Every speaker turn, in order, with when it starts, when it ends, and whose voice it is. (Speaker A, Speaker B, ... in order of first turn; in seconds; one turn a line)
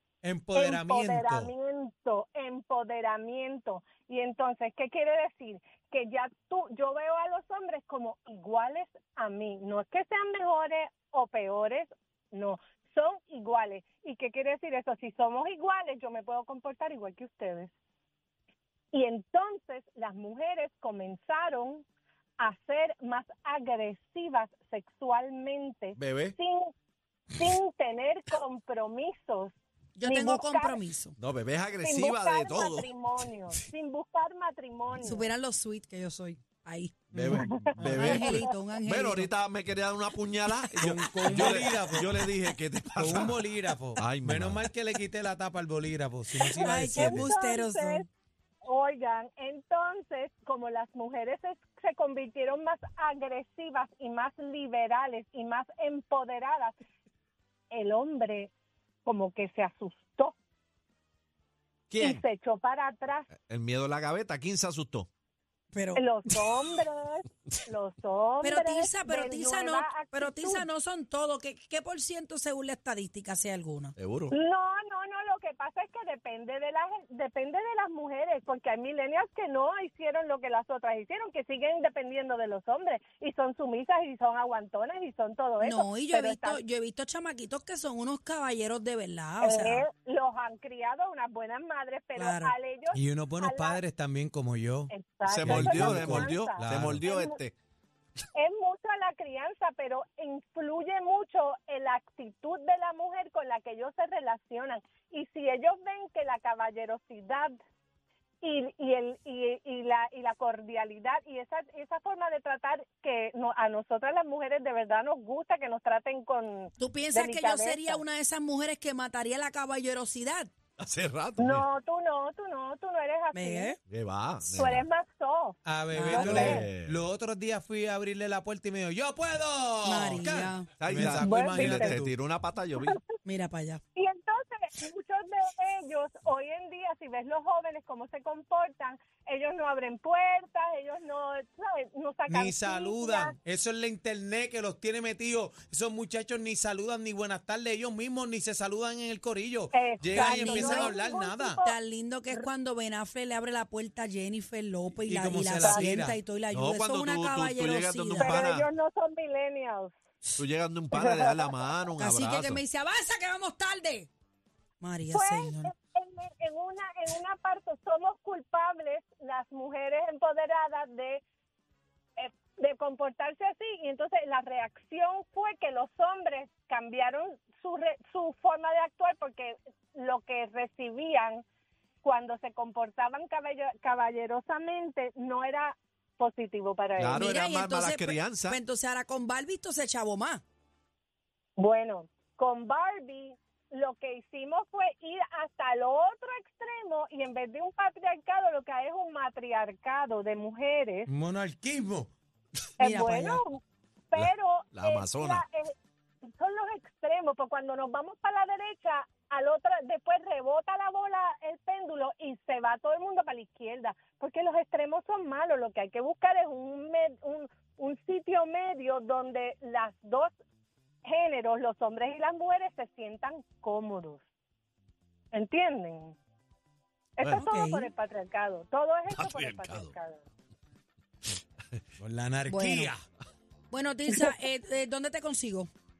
Speaker A: 0.2-1.5
Speaker B: 0.5-17.7
Speaker B: 18.9-21.9
Speaker B: 22.4-26.7
Speaker C: 25.9-26.4
Speaker B: 27.3-30.8
Speaker D: 29.9-31.2
Speaker C: 31.2-32.9
Speaker B: 31.8-35.3
Speaker D: 35.0-39.3
Speaker C: 37.1-44.7
Speaker A: 37.2-38.1
Speaker B: 37.3-38.5
Speaker A: 40.7-42.2
Speaker A: 42.9-47.3
Speaker B: 46.5-48.1
Speaker D: 46.6-48.0
Speaker B: 48.6-56.8
Speaker B: 57.7-58.5
Speaker B: 59.0-60.4
Speaker C: 61.9-62.2
Speaker B: 62.0-63.3
Speaker C: 63.3-65.1
Speaker D: 65.7-66.0
Speaker B: 66.0-70.7
Speaker D: 68.4-73.9
Speaker C: 74.0-74.3
Speaker B: 74.3-86.6
Speaker D: 85.6-89.8
Speaker B: 89.4-93.8
Speaker D: 92.2-92.5
Speaker A: 92.9-97.0
Speaker B: 94.9-97.4
Speaker C: 95.2-97.5
Speaker B: 98.3-107.5
Speaker B: 108.4-118.0
Speaker D: 116.8-120.5
Speaker C: 120.8-121.6
Speaker B: 121.4-123.7
Speaker D: 123.3-123.8
Speaker C: 123.9-124.8
Speaker B: 124.5-126.6
Speaker A: 125.7-132.1
Speaker D: 125.9-126.6
Speaker C: 126.5-127.0
Speaker D: 129.8-130.7
Speaker C: 130.8-133.0
Speaker B: 131.1-132.0
Speaker D: 133.2-133.8
Speaker B: 133.9-143.3
Speaker A: 142.3-151.6
Speaker B: 149.7-151.7
Speaker D: 150.1-150.9
Speaker D: 151.6-158.4
Speaker A: 155.0-156.2
Speaker B: 155.6-155.9
Speaker C: 156.5-158.7
Speaker B: 158.2-159.9
Speaker C: 160.4-162.6
Speaker B: 160.9-161.7
Speaker D: 162.0-164.1
Speaker D: 164.8-165.7
Speaker B: 165.1-171.2
Speaker B: 172.2-181.4
Speaker B: 182.0-187.3
Speaker C: 187.0-188.6
Speaker D: 187.1-190.4
Speaker B: 191.6-201.1
Speaker A: 201.1-202.1
Speaker B: 202.8-205.7
Speaker D: 202.8-203.4
Speaker C: 204.2-205.4
Speaker B: 206.3-220.3
Speaker B: 221.1-224.2
Speaker B: 225.3-226.2
Speaker B: 227.2-230.2
Speaker D: 227.3-227.9
Speaker C: 229.1-229.9
Speaker A: 232.0-233.0
Speaker D: 232.5-232.9
Speaker D: 233.7-235.7